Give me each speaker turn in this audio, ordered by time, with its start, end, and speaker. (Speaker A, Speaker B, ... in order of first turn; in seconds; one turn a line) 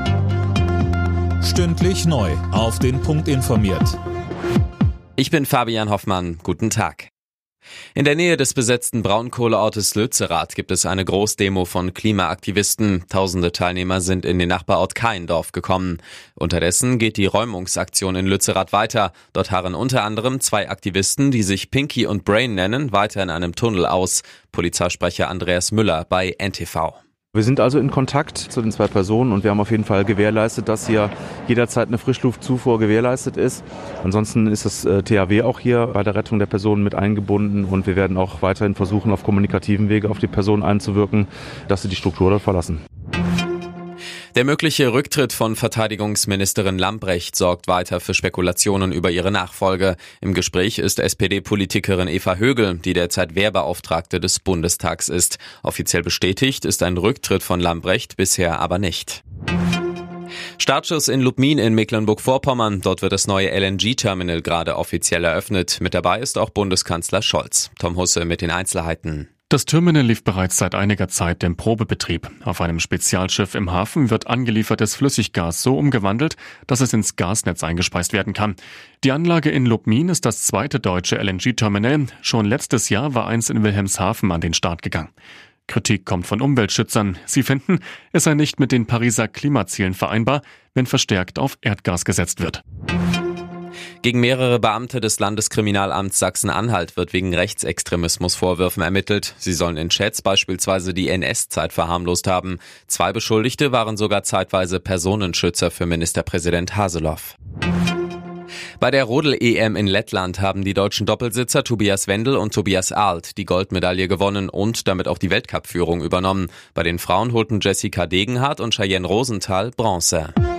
Speaker A: 1.4-4.0
Speaker B: 5.2-7.1
Speaker B: 8.0-27.0
Speaker C: 27.3-42.8
Speaker B: 44.3-59.2
Speaker B: 60.6-69.3
Speaker D: 69.5-85.1
Speaker D: 85.7-92.6
Speaker B: 94.0-107.3
Speaker B: 108.8-120.3